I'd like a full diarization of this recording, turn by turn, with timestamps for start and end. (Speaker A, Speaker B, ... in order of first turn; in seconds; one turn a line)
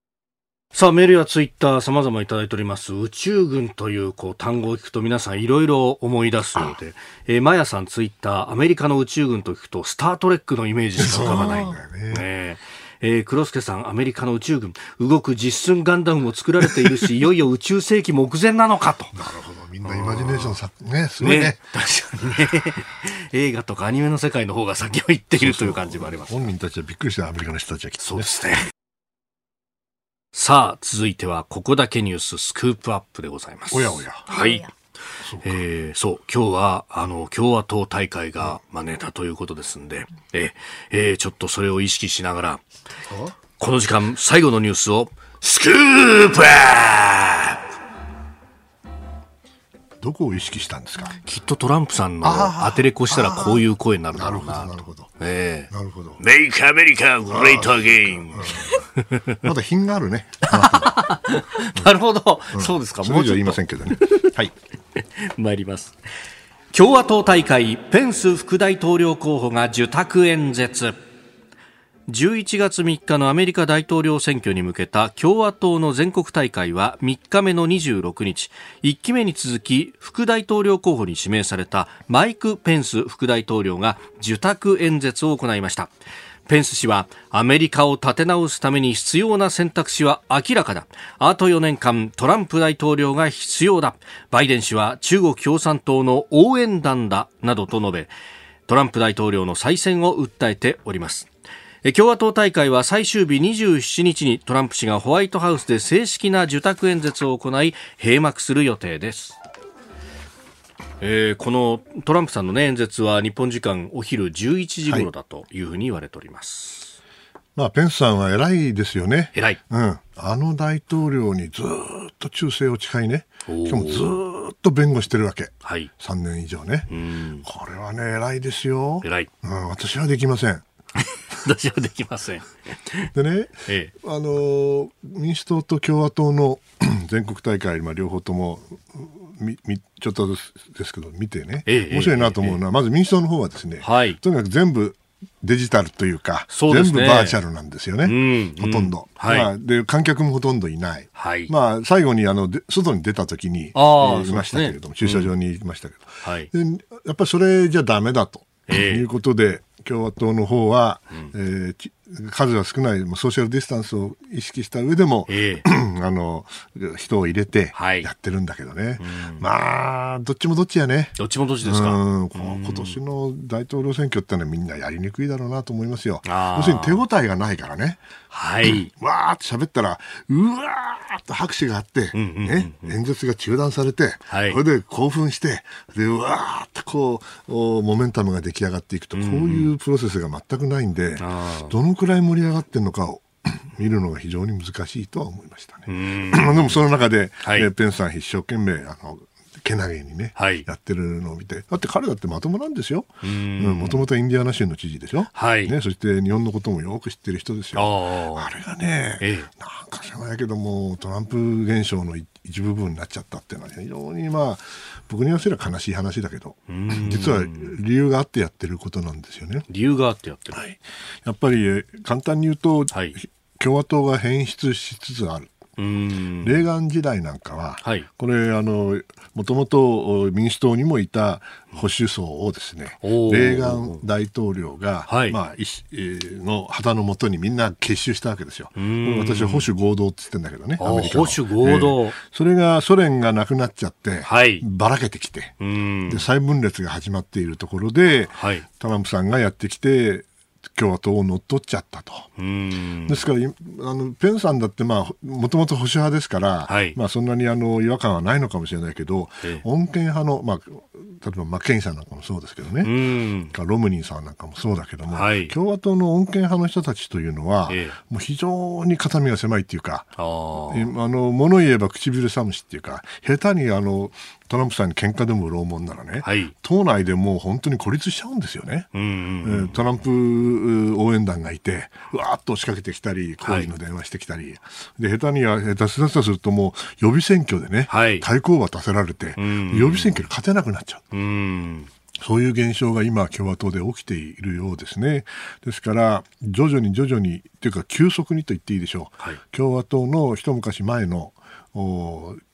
Speaker A: 0.7-19.2
Speaker B: 11.0-12.2
Speaker B: 19.1-21.6
Speaker A: 19.8-20.6
Speaker A: 21.2-26.5
Speaker B: 25.4-28.4
Speaker A: 28.0-28.6
Speaker A: 30.3-34.6
Speaker B: 33.7-34.3
Speaker B: 35.2-35.6
Speaker A: 35.4-42.6
Speaker B: 43.1-43.3
Speaker A: 43.6-47.6
Speaker B: 50.0-51.2
Speaker A: 51.2-59.4
Speaker B: 52.2-55.1
Speaker B: 55.7-56.2
Speaker B: 57.3-58.8
Speaker B: 59.4-61.0
Speaker A: 60.5-64.3
Speaker B: 62.5-64.5
Speaker A: 65.2-65.9
Speaker A: 66.7-71.0
Speaker A: 72.1-85.9
Speaker A: 86.5-98.1
Speaker A: 98.7-101.3
Speaker A: 101.8-109.4
Speaker A: 111.0-117.0
Speaker B: 117.5-126.9
Speaker A: 119.3-119.6
Speaker A: 123.5-124.1
Speaker A: 125.6-125.9
Speaker A: 126.9-127.4
Speaker B: 127.4-130.6
Speaker A: 129.0-129.3
Speaker A: 131.0-133.1
Speaker B: 133.1-178.0
Speaker A: 133.7-133.9
Speaker A: 141.7-142.6
Speaker A: 143.8-144.2
Speaker A: 146.5-147.4
Speaker A: 148.0-149.5
Speaker A: 151.2-151.5
Speaker A: 153.7-155.3
Speaker A: 156.2-156.5
Speaker A: 158.7-159.0
Speaker A: 165.3-165.6
Speaker A: 167.7-168.1
Speaker A: 169.0-169.4
Speaker A: 171.2-173.0
Speaker A: 176.2-177.0
Speaker A: 178.3-178.9
Speaker B: 178.6-219.7
Speaker A: 182.1-182.9
Speaker A: 184.3-184.6
Speaker A: 189.1-189.7
Speaker A: 191.2-191.7
Speaker A: 195.9-196.8
Speaker A: 197.4-197.7
Speaker A: 200.3-200.6
Speaker A: 203.2-204.1
Speaker A: 205.3-205.7
Speaker A: 207.7-208.5
Speaker A: 209.2-209.5
Speaker A: 216.7-217.7
Speaker A: 219.7-220.6
Speaker B: 220.5-225.6
Speaker A: 222.9-223.2
Speaker A: 225.8-226.6
Speaker B: 226.4-245.6
Speaker A: 227.8-228.1
Speaker A: 233.0-234.0
Speaker A: 235.1-235.4
Speaker A: 238.8-239.7
Speaker A: 240.8-242.2
Speaker A: 244.2-244.6
Speaker A: 245.6-246.2
Speaker B: 246.1-252.3
Speaker A: 248.4-248.7
Speaker A: 252.4-253.2
Speaker B: 253.1-262.9
Speaker A: 256.7-257.0
Speaker A: 262.8-263.5
Speaker B: 263.5-270.1
Speaker A: 265.1-265.5
Speaker A: 267.7-268.0
Speaker A: 270.2-270.9
Speaker B: 270.7-278.9
Speaker A: 276.2-276.5
Speaker A: 278.9-279.8
Speaker B: 279.4-291.1
Speaker A: 283.4-283.7
Speaker A: 287.9-288.3
Speaker A: 289.4-290.2
Speaker A: 291.1-291.9
Speaker B: 292.2-302.4